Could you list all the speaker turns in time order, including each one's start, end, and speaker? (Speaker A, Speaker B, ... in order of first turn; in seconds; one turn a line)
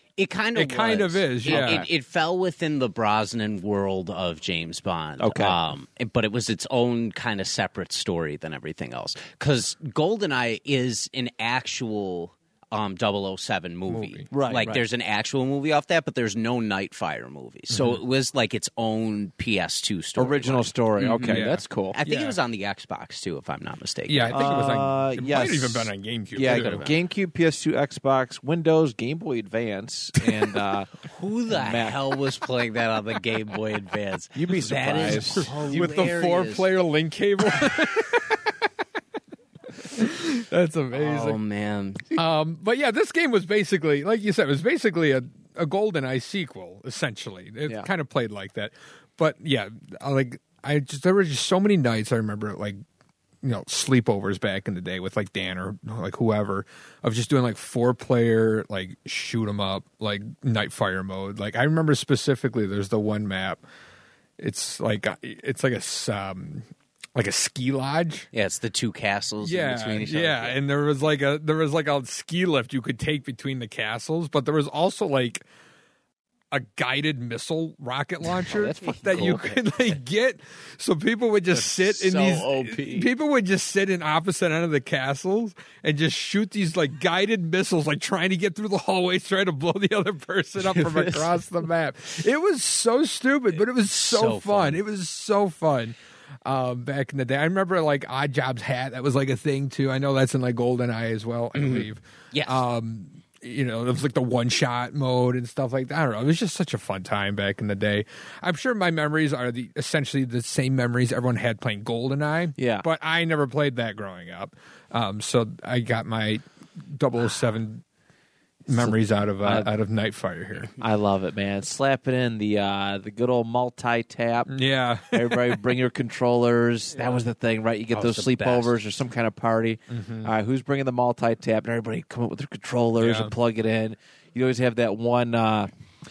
Speaker A: 0.2-24.4
Speaker B: 0.5-1.9
Speaker C: 1.4-1.9
Speaker C: 5.2-5.6
Speaker B: 13.9-14.3
Speaker C: 14.3-14.8
Speaker B: 17.7-18.0
Speaker C: 20.2-22.0
Speaker B: 21.2-22.4
Speaker B: 24.1-26.9
Speaker C: 24.3-30.9
Speaker A: 26.4-26.9
Speaker A: 31.1-36.6
Speaker C: 31.5-32.0
Speaker C: 34.3-35.5
Speaker B: 35.2-38.7
Speaker B: 39.7-41.4
Speaker A: 40.9-42.2
Speaker B: 42.1-52.8
Speaker B: 53.4-63.6
Speaker B: 64.4-68.3
Speaker A: 68.3-70.6
Speaker B: 69.4-75.5
Speaker B: 76.5-117.8
Speaker C: 78.5-79.5
Speaker A: 78.5-79.6
Speaker A: 81.5-83.1
Speaker A: 90.6-91.3
Speaker A: 93.6-94.8
Speaker A: 101.5-102.6
Speaker C: 112.6-112.8
Speaker B: 118.7-120.7
Speaker C: 118.7-119.7
Speaker C: 120.8-124.5
Speaker B: 124.5-125.7
Speaker C: 125.1-135.7
Speaker A: 127.9-128.8
Speaker B: 129.9-130.3
Speaker B: 133.0-133.3